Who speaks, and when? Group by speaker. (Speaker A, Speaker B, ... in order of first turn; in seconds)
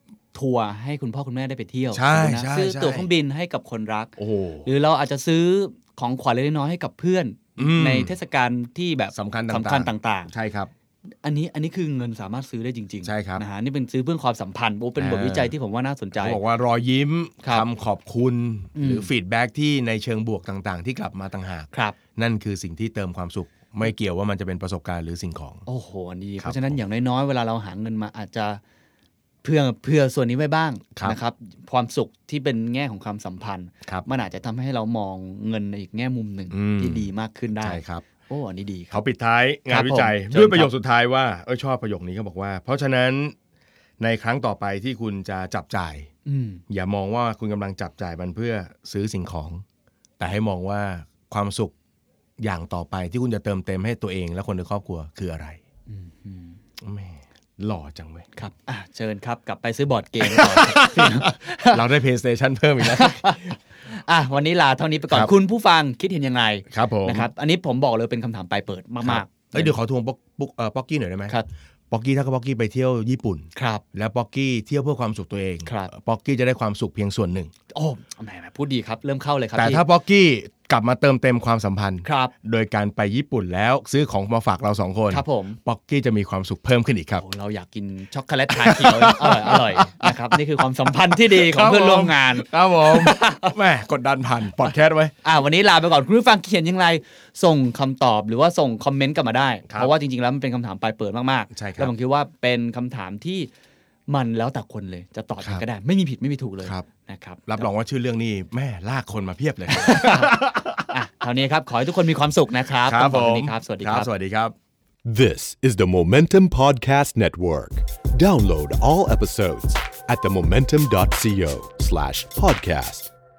Speaker A: 0.3-4.1, 4.6-10.3, 11.2-16.4, 18.8-19.1, 21.7-22.0, 25.6-28.6, 29.4-39.0, 39.7-40.7, 46.2-46.6, 55.9-56.6, 58.4-61.8, 62.8-69.7, 73.5-73.8, 77.7-79.8, 82.0-82.3, 85.1-85.6, 87.2-93.5, 95.2-103.5, 104.1-107.7, 109.7-114.1
Speaker B: 1.9-3.1, 4.2-4.7, 7.6-8.1, 9.1-10.7, 13.0-13.4, 15.0-15.5, 16.1-25.6, 26.4-26.7, 36.5-37.1, 37.6-38.0, 38.9-43.3, 44.0-46.1, 46.7-49.6, 50.2-51.7, 52.4-55.6, 56.8-58.3, 60.2-63.5, 66.7-67.3, 69.0-71.3, 71.9-77.5, 79.5-87.2, 88.5-95.1, 101.5-101.9, 107.5-110.9, 112.8-114.5
Speaker C: 115.0-123.1